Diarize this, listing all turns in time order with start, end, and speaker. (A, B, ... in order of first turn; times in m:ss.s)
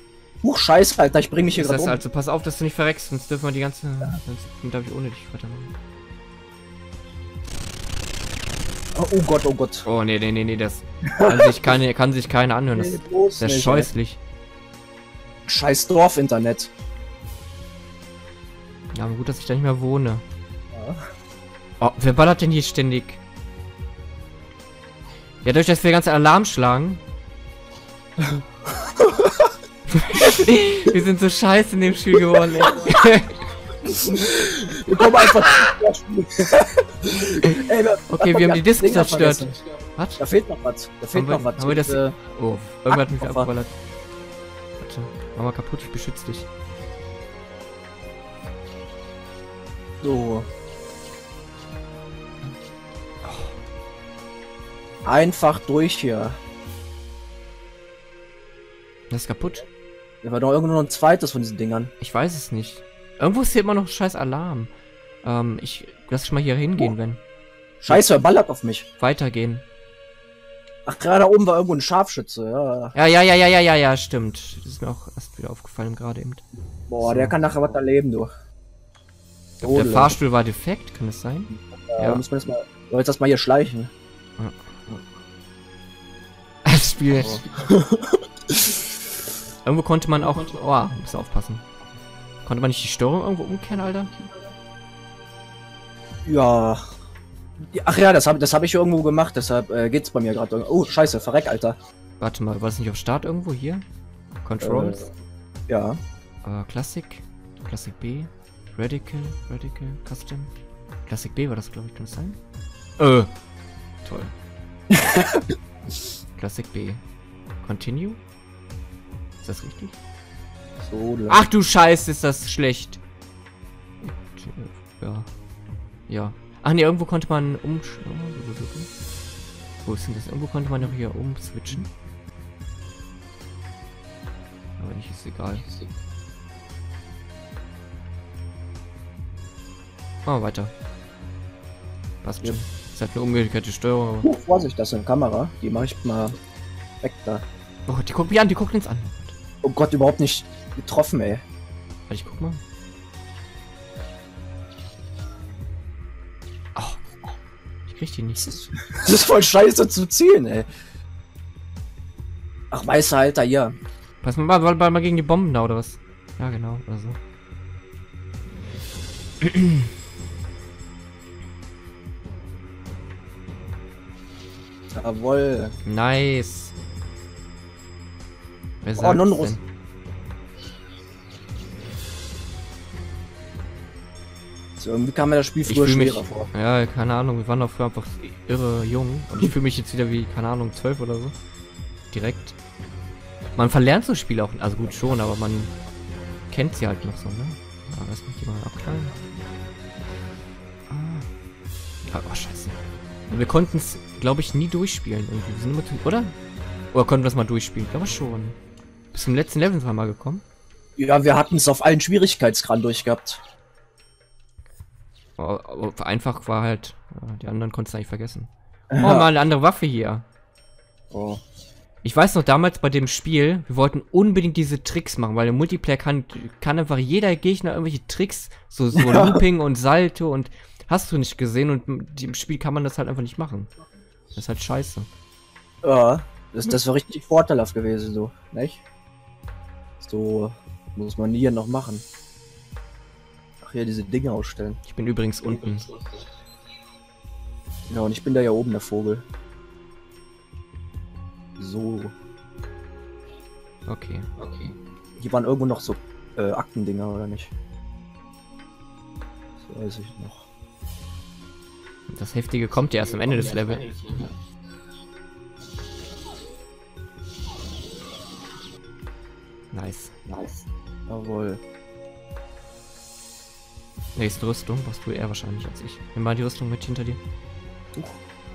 0:00.4-0:02.0 A
0:01.5-0:05.7 B
0:08.9-0:09.8 A
0:09.8-0:14.2 B
0:11.1-0:11.7 A
0:12.7-0:13.9 A
0:15.5-0:16.7 A
0:18.9-0:20.2 B
0:20.7-0:21.0 A
0:21.8-0:23.2 B
0:25.4-0:27.0 B
0:28.2-0:29.5 A
0:29.9-0:33.4 B
0:32.6-0:33.0 A
0:33.8-0:39.6 A
0:34.9-0:35.3 B
0:38.1-0:40.2 B
0:40.2-0:42.2 A
0:41.1-0:43.8 B
0:42.9-0:43.5 A
0:44.8-0:46.5 B
0:50.0-0:50.5 A
0:53.2-0:53.5 B
0:55.0-0:56.4 A
0:59.1-0:59.6 B
1:00.2-1:01.9 A
1:02.0-1:04.7 B
1:05.2-1:07.2 B
1:07.8-1:08.9 A
1:09.0-1:09.6 B
1:10.8-1:12.9 A
1:12.9-1:16.4 B
1:16.9-1:18.3 A
1:17.0-1:17.4 B
1:19.6-1:22.2 B
1:19.6-1:20.2 A
1:21.8-1:23.9 A
1:24.4-1:24.7 B
1:26.6-1:27.4 B
1:27.2-1:28.9 A
1:29.6-1:31.6 B
1:32.4-1:34.1 B
1:36.2-1:37.0 A
1:37.7-1:41.8 A
1:42.2-1:43.8 B
1:44.4-1:45.1 B
1:44.6-1:45.1 A
1:45.7-1:46.0 A
1:46.4-1:50.5 B
1:51.1-1:52.4 B
1:53.0-1:53.3 B
1:54.0-1:54.3 B
1:54.9-1:55.5 A
1:56.4-1:57.0 B
1:57.6-1:58.2 B
1:59.4-2:00.0 B
2:00.8-2:01.4 A
2:01.3-2:03.0 B
2:04.0-2:05.3 B
2:06.1-2:08.9 B
2:09.8-2:11.9 B
2:14.8-2:15.7 B
2:20.2-2:20.7 B
2:22.2-2:24.3 B
2:24.2-2:26.4 A
2:27.0-2:27.4 A
2:27.9-2:29.3 B
2:29.6-2:31.4 A
2:32.1-2:32.6 B
2:36.8-2:37.3 B
2:37.9-2:38.7 B
2:38.8-2:40.7 A
2:42.7-2:43.7 A
2:44.2-2:47.2 B
2:49.4-2:49.8 B
2:54.9-2:55.8 A
2:55.8-2:56.7 B
2:58.8-2:59.6 B
2:59.0-2:59.6 A
3:04.8-3:06.5 A
3:05.6-3:11.3 B
3:12.1-3:12.6 B
3:13.6-3:15.7 B
3:16.5-3:19.2 B
3:20.9-3:21.3 B
3:22.1-3:22.8 B
3:23.3-3:26.4 B
3:26.9-3:28.6 B
3:29.1-3:30.4 B
3:31.0-3:33.4 A
3:35.4-3:40.2 B
3:38.9-3:39.3 A
3:41.1-3:41.4 A
3:42.0-3:53.7 B
3:49.0-3:49.4 A
3:54.3-3:55.1 B
3:55.8-3:58.8 A
4:00.0-4:02.0 A
4:03.6-4:04.8 A
4:04.8-4:05.9 B
4:07.9-4:09.2 A
4:11.6-4:12.1 A
4:13.9-4:14.3 B
4:15.2-4:17.5 A
4:19.6-4:20.4 A
4:22.1-4:24.3 B
4:29.7-4:30.2 B
4:31.1-4:31.6 A
4:34.2-4:37.2 B